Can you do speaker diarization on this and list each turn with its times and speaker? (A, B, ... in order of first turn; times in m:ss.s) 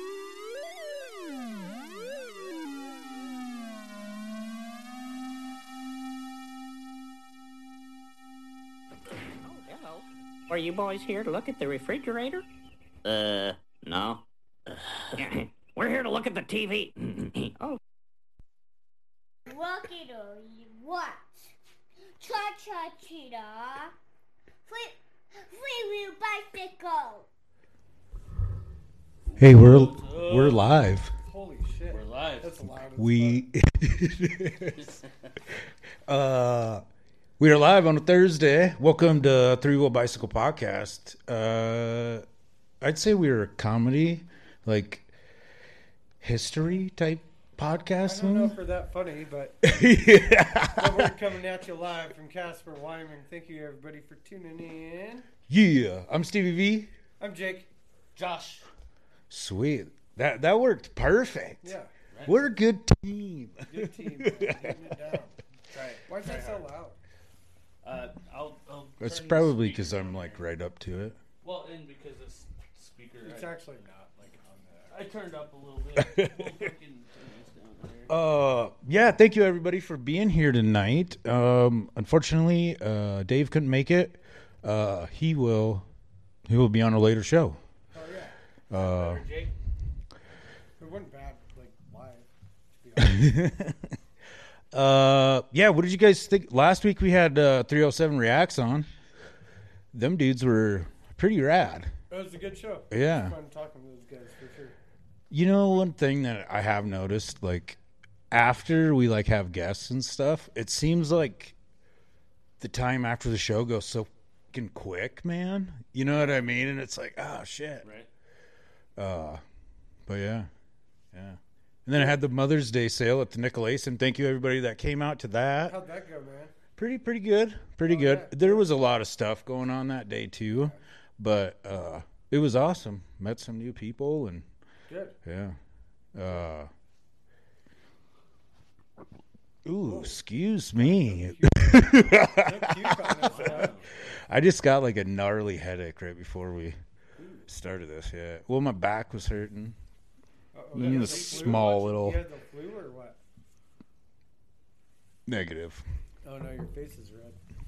0:09.4-0:12.4 A
0:13.0-0:14.2 A
0:14.8-0:17.8 A
0:19.5-0:21.5 B
0:22.2-0:23.9 B
0:24.7-0:27.3 B
0:29.3-0:30.7 C
0:29.4-0:31.1 D
0:31.2-0:33.5 E
0:31.9-0:32.6 C
0:33.0-0:34.9 D
0:34.8-0:35.3 C
0:36.1-0:36.8 D
0:37.4-0:42.2 D
0:42.8-0:45.1 D
0:46.2-0:48.6 D
0:48.0-0:49.6 E
0:49.6-0:51.1 D
0:50.8-0:55.3 E
0:55.5-0:56.9 D
0:57.2-0:57.7 E
0:58.2-0:58.7 C
0:59.3-1:01.8 D
1:01.6-1:01.9 E
1:02.1-1:02.4 C
1:02.3-1:05.0 D
1:03.7-1:05.4 E
1:05.7-1:06.6 C
1:06.1-1:07.0 E
1:07.8-1:10.4 C
1:09.0-1:11.2 D
1:11.4-1:13.6 C
1:13.2-1:15.0 E
1:14.9-1:18.1 C
1:16.0-1:16.7 D
1:18.1-1:25.9 D
1:26.5-1:27.6 D
1:27.9-1:28.4 E
1:28.7-1:29.2 D
1:28.7-1:29.5 C
1:30.8-1:33.4 E
1:33.0-1:34.0 D
1:34.7-1:38.9 D
1:39.9-1:41.9 D
1:42.1-1:44.8 E
1:42.9-1:43.4 D
1:45.3-1:47.8 D
1:48.3-1:51.6 D
1:52.6-1:57.9 D
1:57.8-1:58.1 C
1:59.0-1:59.4 D
2:00.1-2:00.5 D
2:01.1-2:05.8 D
2:05.6-2:06.5 E
2:06.8-2:14.5 D
2:07.9-2:08.7 E
2:14.9-2:15.2 E
2:15.2-2:15.6 D
2:16.2-2:16.7 D
2:19.6-2:26.8 D
2:19.8-2:20.2 E
2:20.8-2:23.8 E
2:23.2-2:23.9 C
2:27.2-2:27.4 C
2:27.5-2:29.8 D
2:30.5-2:33.2 E
2:30.7-2:32.2 D
2:30.8-2:31.7 C
2:35.3-2:35.9 D
2:36.2-2:37.4 E